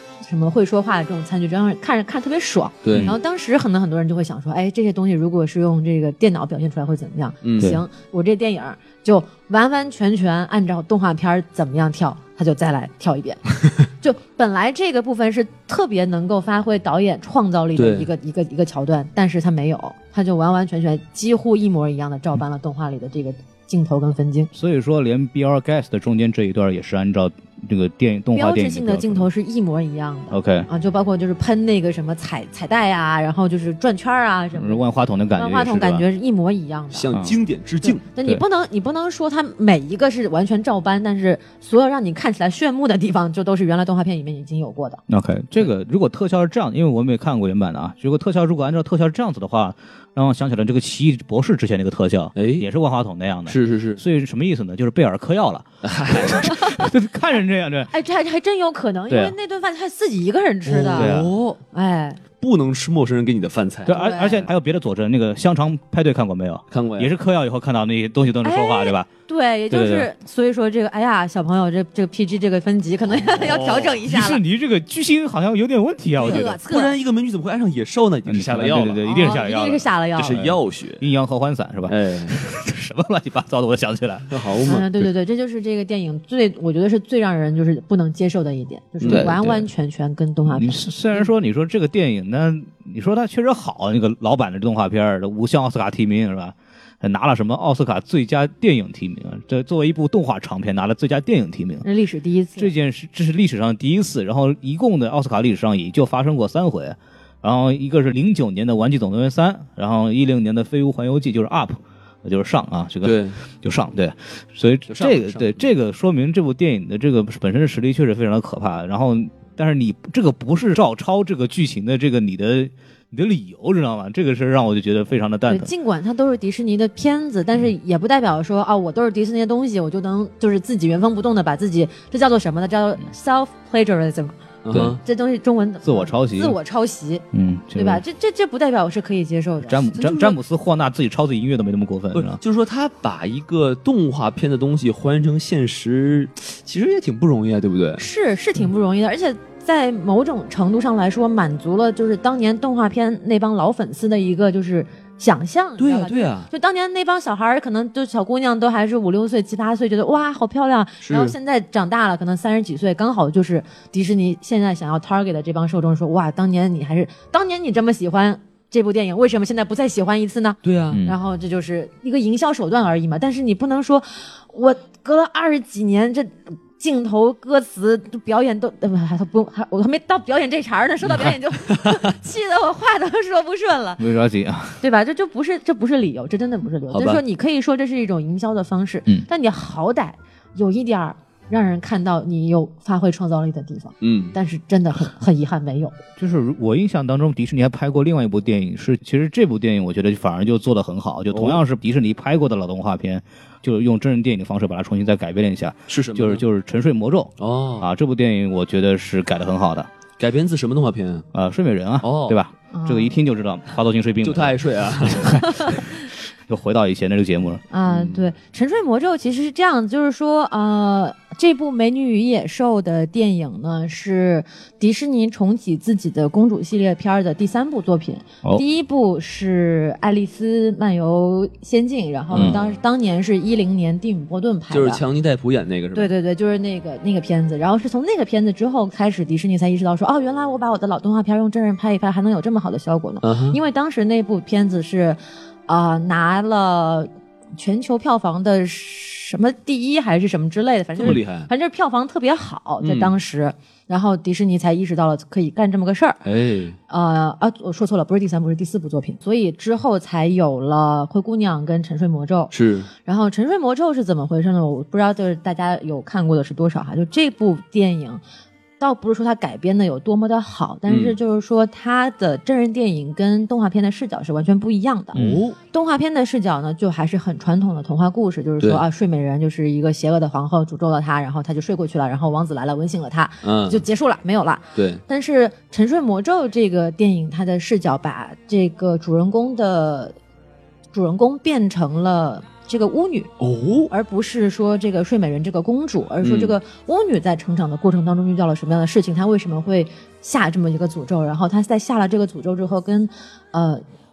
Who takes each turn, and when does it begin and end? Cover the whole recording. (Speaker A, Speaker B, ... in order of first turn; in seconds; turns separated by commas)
Speaker A: 0.2-24.5, Speaker B: 2.8-3.1, Speaker B: 7.5-7.8, Speaker B: 17.8-18.1, Speaker C: 24.6-29.3, Speaker A: 28.3-34.8, Speaker C: 30.3-30.7, Speaker C: 34.5-36.0, Speaker A: 35.4-37.1, Speaker B: 36.9-38.0, Speaker C: 37.1-37.4, Speaker A: 37.8-45.0, Speaker C: 45.1-57.9, Speaker B: 52.4-52.7, Speaker B: 53.5-54.0, Speaker B: 55.8-56.6, Speaker A: 56.4-56.9, Speaker A: 57.9-61.2, Speaker C: 59.1-59.4, Speaker B: 60.6-61.6, Speaker C: 60.9-61.4, Speaker A: 61.7-62.2, Speaker B: 62.4-63.9, Speaker C: 63.9-69.1, Speaker A: 63.9-64.5, Speaker B: 66.7-67.1, Speaker A: 68.4-74.4, Speaker C: 69.7-70.1, Speaker B: 73.3-74.0, Speaker C: 74.0-76.6, Speaker A: 76.2-77.0, Speaker B: 76.2-79.0, Speaker C: 78.3-85.1, Speaker A: 79.0-80.4, Speaker B: 80.2-81.0, Speaker B: 81.9-82.4, Speaker B: 84.3-84.8, Speaker A: 84.7-91.3, Speaker C: 89.0-89.7, Speaker B: 89.0-89.3, Speaker C: 90.5-101.9, Speaker A: 101.8-102.7, Speaker C: 102.6-125.7, Speaker B: 113.0-113.4, Speaker B: 114.9-115.7, Speaker A: 125.5-139.8, Speaker B: 134.7-135.0, Speaker C: 135.8-136.6, Speaker C: 137.3-138.0, Speaker C: 139.7-142.4, Speaker B: 139.9-140.4, Speaker B: 142.1-148.0, Speaker A: 148.0-184.0, Speaker B: 155.8-156.5, Speaker B: 161.0-161.4, Speaker B: 170.6-171.0, Speaker B: 181.7-182.0, Speaker C: 184.0-184.8, Speaker A: 184.8-196.0, Speaker B: 186.9-187.2, Speaker B: 194.0-194.3, Speaker C: 196.2-209.9, Speaker B: 201.3-201.6, Speaker B: 205.9-206.4, Speaker B: 207.4-207.9, Speaker B: 210.2-211.2, Speaker C: 211.3-217.6, Speaker B: 212.0-212.4, Speaker A: 212.7-213.2, Speaker B: 214.2-215.4, Speaker A: 215.4-215.8, Speaker A: 217.7-235.0, Speaker B: 217.9-218.3, Speaker B: 232.3-232.8, Speaker C: 232.3-232.6, Speaker B: 234.7-236.1, Speaker A: 235.9-256.2, Speaker B: 243.2-243.6, Speaker B: 251.0-251.5, Speaker B: 252.8-253.2, Speaker B: 256.2-256.8, Speaker A: 256.9-262.5, Speaker B: 262.5-262.9, Speaker A: 263.0-268.2, Speaker A: 268.8-275.2, Speaker B: 270.9-271.2, Speaker C: 275.1-275.4, Speaker B: 275.1-275.6, Speaker A: 275.7-290.1, Speaker B: 283.4-283.9, Speaker B: 284.8-285.0, Speaker A: 290.9-293.3, Speaker B: 293.4-293.9, Speaker A: 293.9-303.8, Speaker B: 296.2-296.6